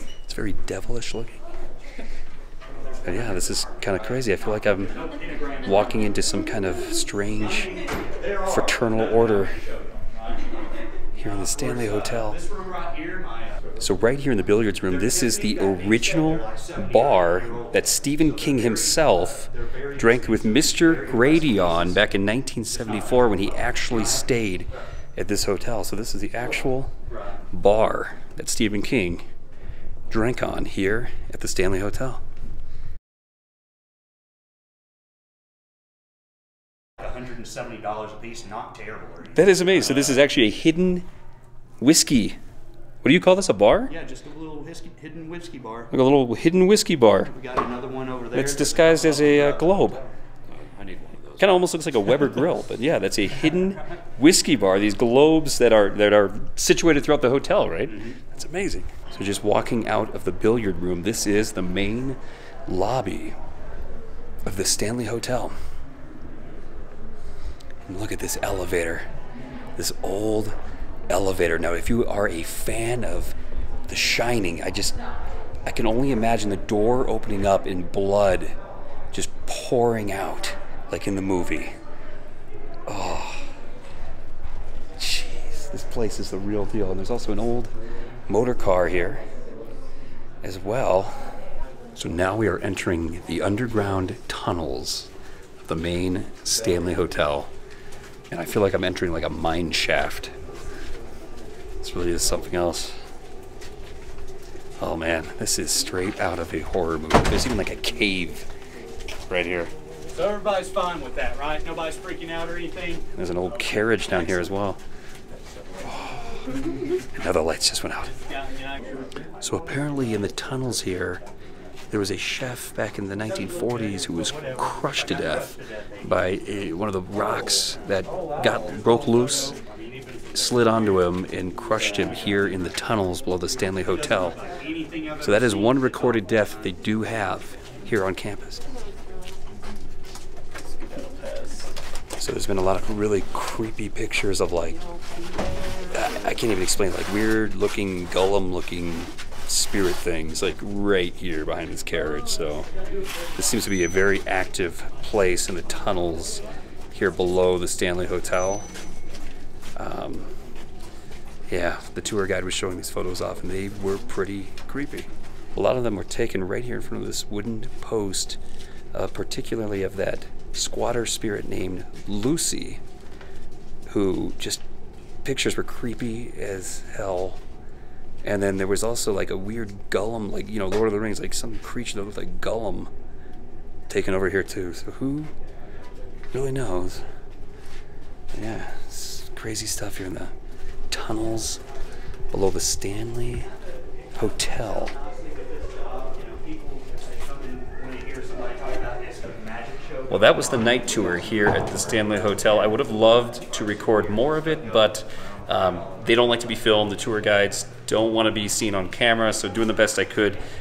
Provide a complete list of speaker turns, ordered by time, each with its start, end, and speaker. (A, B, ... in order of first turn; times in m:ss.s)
0:00.3-0:01.4 A
0:03.0-0:07.8 A
0:04.8-0:05.9 B
0:07.4-0:10.6 B
0:08.5-0:09.6 A
0:11.2-0:12.4 A
0:11.2-0:13.7 B
0:13.8-0:26.9 A
0:14.9-0:22.1 B
0:22.8-0:24.3 B
0:27.5-0:29.2 A
0:30.1-0:32.2 A
0:37.0-0:40.0 B
0:39.3-0:41.1 A
0:41.8-0:42.4 A
0:43.0-0:43.9 A
0:43.9-0:45.9 B
0:45.9-0:47.3 A
0:47.3-0:50.0 B
0:48.3-0:50.0 A
0:50.5-0:51.7 C
0:51.4-1:03.4 A
1:04.4-1:05.6 A
1:07.9-1:09.1 A
1:09.8-1:10.6 A
1:11.1-1:13.4 A
1:13.9-1:15.0 A
1:15.7-1:18.6 A
1:19.1-1:21.8 A
1:22.9-1:23.5 A
1:25.0-1:27.7 A
1:28.3-1:29.2 A
1:30.4-1:31.2 A
1:32.0-1:35.1 A
1:35.6-1:37.5 A
1:38.3-1:40.4 A
1:41.8-1:43.0 A
1:44.8-1:48.5 A
1:49.3-1:49.7 A
1:50.1-1:53.1 B
1:53.1-1:54.8 A
1:55.8-1:56.3 A
1:57.1-1:58.2 A
1:58.5-1:58.9 B
1:59.4-2:01.2 A
2:01.9-2:09.6 A
2:03.6-2:06.0 B
2:10.3-2:14.4 A
2:13.9-2:16.5 B
2:15.2-2:18.6 A
2:20.6-2:21.7 C
2:22.2-2:24.8 A
2:25.9-2:32.7 A
2:33.3-2:38.7 A
2:39.8-2:40.3 A
2:41.5-2:48.4 A
2:48.9-2:52.8 A
2:53.9-2:54.6 A
2:55.2-2:57.4 A
2:58.2-3:02.9 A
3:03.9-3:05.3 A
3:06.3-3:07.0 A
3:08.3-3:10.3 A
3:10.9-3:11.6 A
3:12.3-3:13.5 A
3:14.1-3:15.0 A
3:15.2-3:20.5 B
3:20.1-3:30.4 A